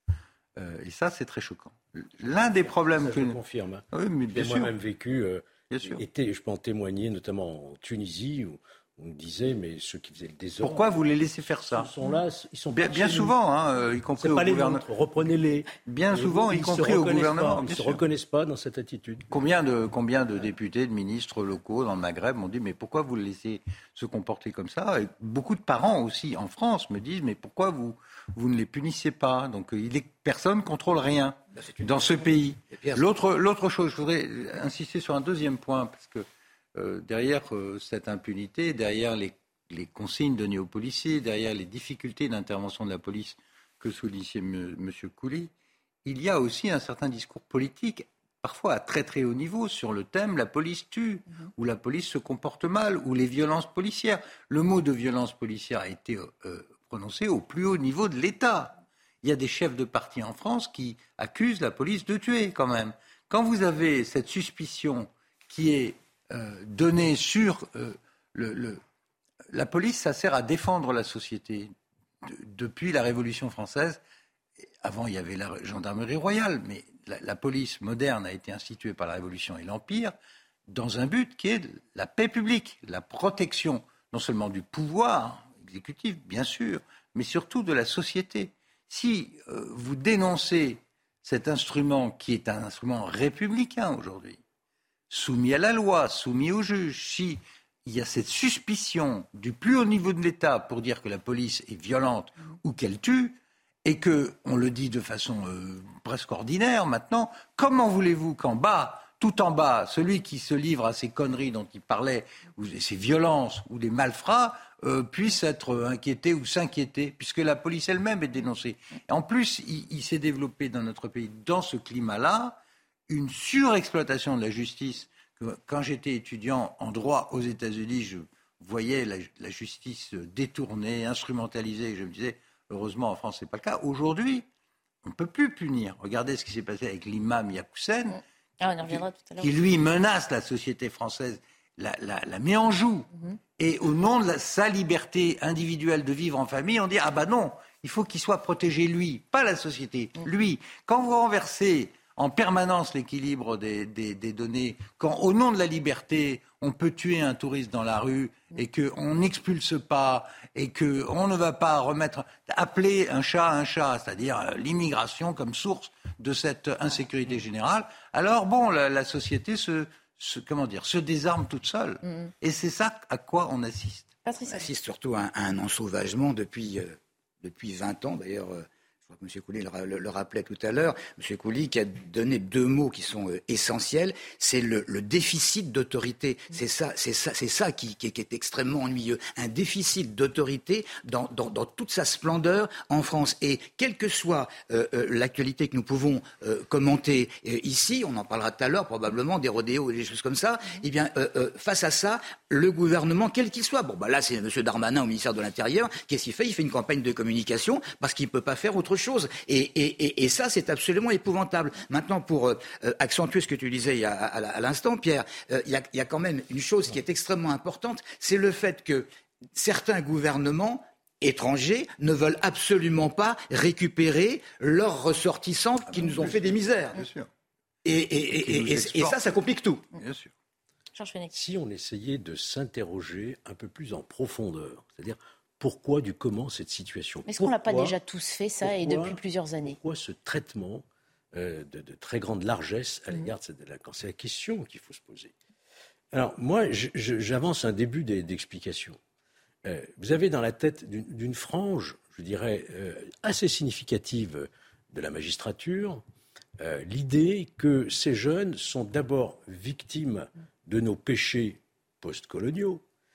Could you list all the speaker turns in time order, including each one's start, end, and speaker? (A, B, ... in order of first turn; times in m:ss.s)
0:00.6-0:03.4 A
0:02.6-0:10.9 B
0:03.9-0:04.8 A
0:05.7-0:06.0 A
0:10.6-0:11.9 A
0:11.7-0:13.4 B
0:12.8-0:14.9 A
0:14.2-0:19.3 B
0:15.8-0:18.0 A
0:19.3-0:45.5 A
0:31.6-0:33.0 C
0:46.0-1:08.8 A
1:09.5-1:14.0 A
1:14.8-1:20.2 A
1:20.7-1:34.4 A
1:35.1-2:14.5 A
2:15.0-2:18.2 A
2:18.1-2:19.6 D
2:18.8-2:54.1 A
2:54.3-2:54.6 D
2:54.5-3:47.0 C
3:45.9-3:47.3 A
3:47.8-3:49.8 C
3:48.3-3:49.4 A
3:49.9-3:50.3 A
3:51.0-3:51.3 D
3:51.3-3:58.0 B
3:57.3-3:59.8 D
3:58.6-4:05.3 B
4:06.1-4:09.0 B
4:09.6-4:16.0 B
4:16.6-4:22.8 B